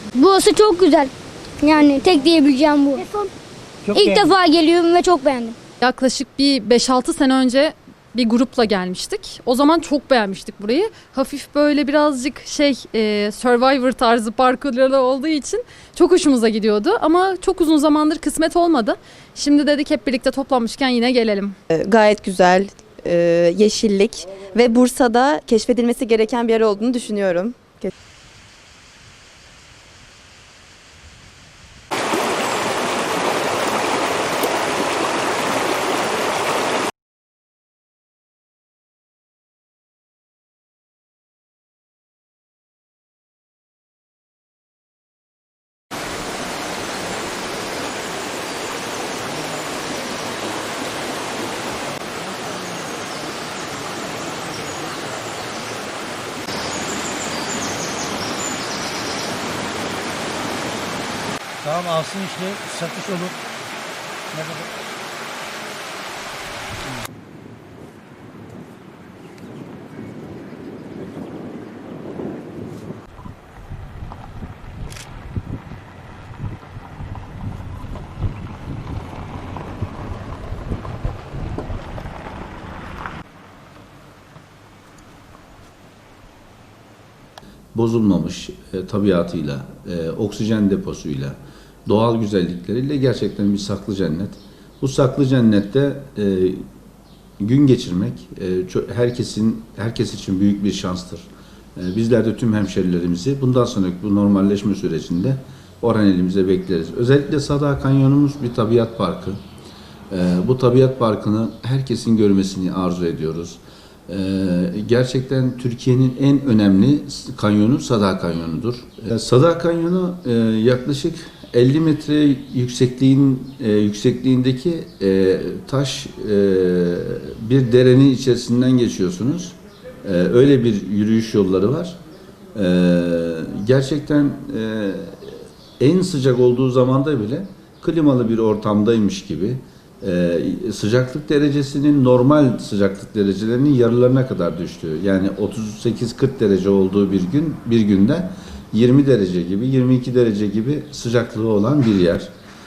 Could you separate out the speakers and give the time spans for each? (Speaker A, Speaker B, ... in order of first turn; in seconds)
Speaker A: 0.1-3.1, 3.9-5.6
Speaker B: 3.9-4.2, 61.6-63.4, 64.4-64.7
Speaker C: 5.8-21.6
Speaker D: 21.7-27.9
Speaker E: 87.7-96.7, 97.4-109.4, 110.1-132.0, 132.5-152.3